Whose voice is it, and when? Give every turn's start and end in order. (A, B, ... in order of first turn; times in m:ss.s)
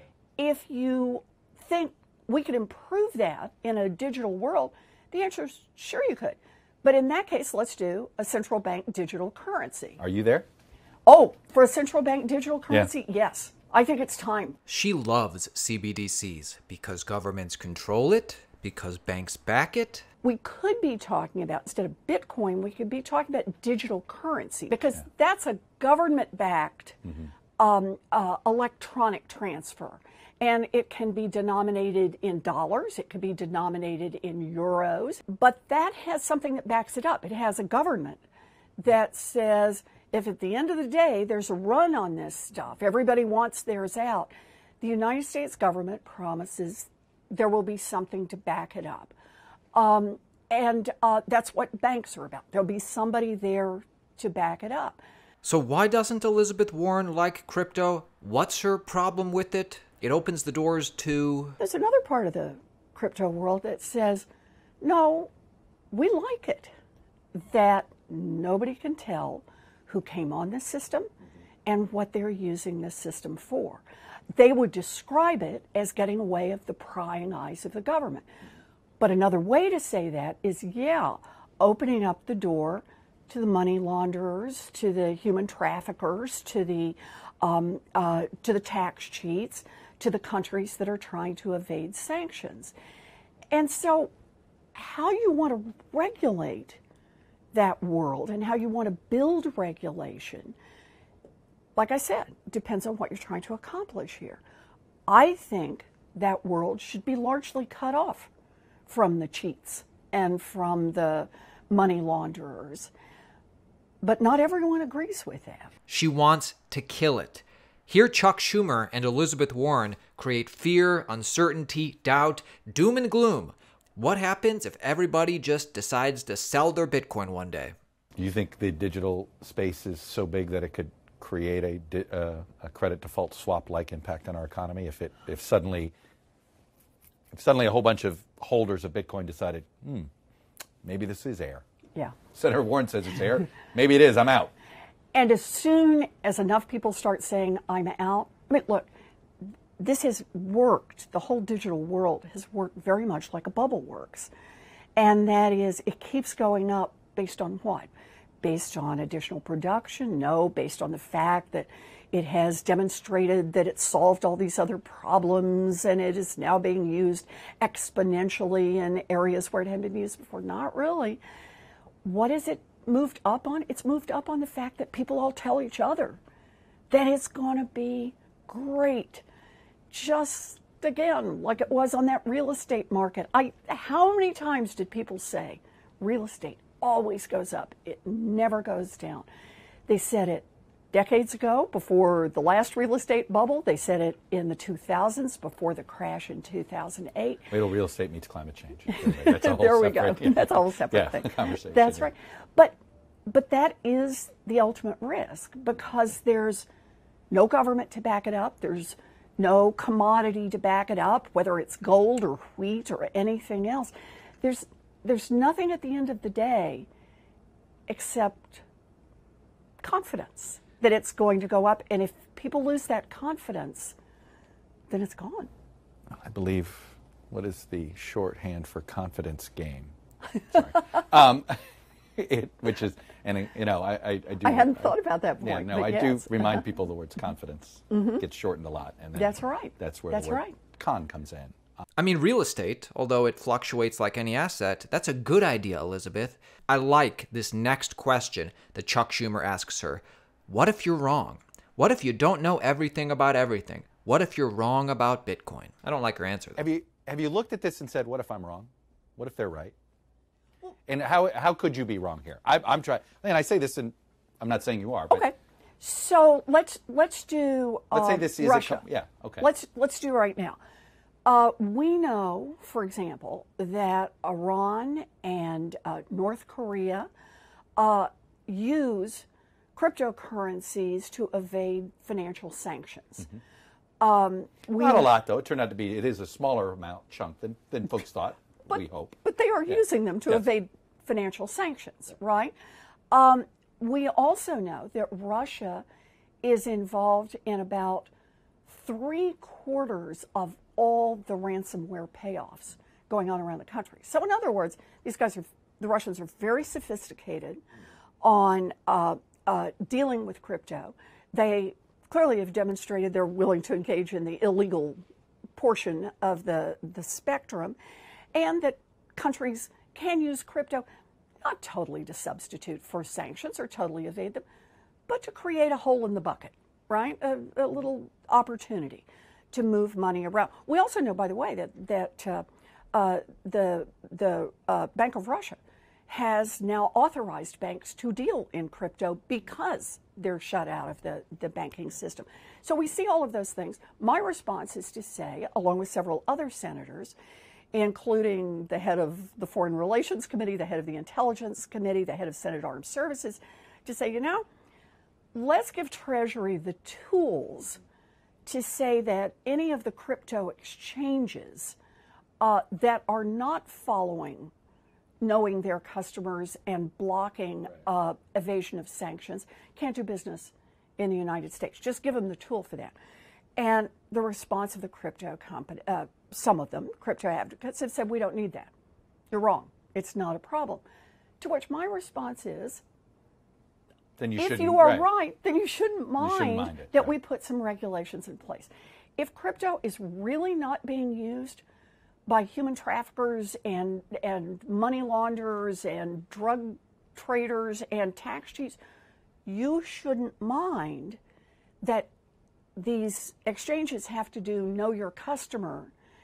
0:00.4-0:10.0 A
0:10.0-0:10.5 B
0:11.1-0:14.6 A
0:14.7-0:20.0 C
0:20.2-0:27.0 A
0:27.6-0:38.2 A
0:38.8-0:49.1 A
0:49.7-0:55.0 A
0:55.4-1:01.6 C
1:01.6-1:04.3 A
1:04.8-1:05.3 A
1:05.9-1:06.7 A
1:07.4-1:11.1 A
1:11.7-1:18.3 A
1:19.0-1:32.7 A
1:33.5-1:34.1 A
1:34.8-1:36.8 A
1:37.5-1:40.6 A
1:41.8-1:44.4 A
1:45.1-1:48.3 A
1:48.9-1:52.9 A
1:54.0-1:55.7 A
1:55.9-2:07.7 C
2:08.2-2:15.9 B
2:17.3-2:20.1 B
2:20.8-2:21.6 B
2:22.3-2:24.5 B
2:25.1-2:28.9 A
2:29.8-2:34.3 A
2:35.0-2:37.9 A
2:38.4-2:51.2 A
2:52.0-2:56.2 A
2:56.9-2:59.2 A
2:59.9-3:09.3 A
3:09.9-3:17.5 A
3:17.5-3:22.1 B
3:18.9-3:26.7 A
3:27.3-3:36.9 A
3:37.9-3:38.6 A
3:39.8-3:44.0 A
3:44.9-3:45.5 A
3:46.1-3:50.0 B
3:50.5-3:51.6 B
3:52.2-4:01.6 B
3:54.4-3:56.6 A
3:57.9-3:58.2 A
3:59.2-4:00.6 A
4:02.0-4:16.6 C
4:16.6-4:19.7 B
4:20.9-4:25.2 B
4:25.1-4:28.8 A
4:27.9-4:29.5 B
4:29.4-4:30.6 A
4:31.2-4:37.1 A
4:37.8-4:43.3 A
4:44.0-4:45.1 A
4:44.8-4:49.2 B
4:48.7-4:52.5 A
4:53.1-4:55.8 A
4:56.4-4:58.1 A
4:58.7-5:07.6 A
5:08.2-5:15.0 A
5:15.6-5:17.8 A
5:18.3-5:20.9 A
5:21.4-5:24.4 A
5:25.1-5:47.2 A
5:47.7-5:54.4 A
5:55.3-5:57.8 A
5:58.4-6:01.8 A
6:02.4-6:04.5 A
6:05.2-6:13.0 A
6:13.6-6:18.7 A
6:19.3-6:20.8 A
6:21.4-6:22.8 A
6:24.2-6:25.1 B
6:24.4-6:31.6 A
6:26.2-6:27.1 B
6:32.3-6:38.8 A
6:39.5-6:41.2 A
6:41.8-6:42.1 A
6:42.8-6:45.9 A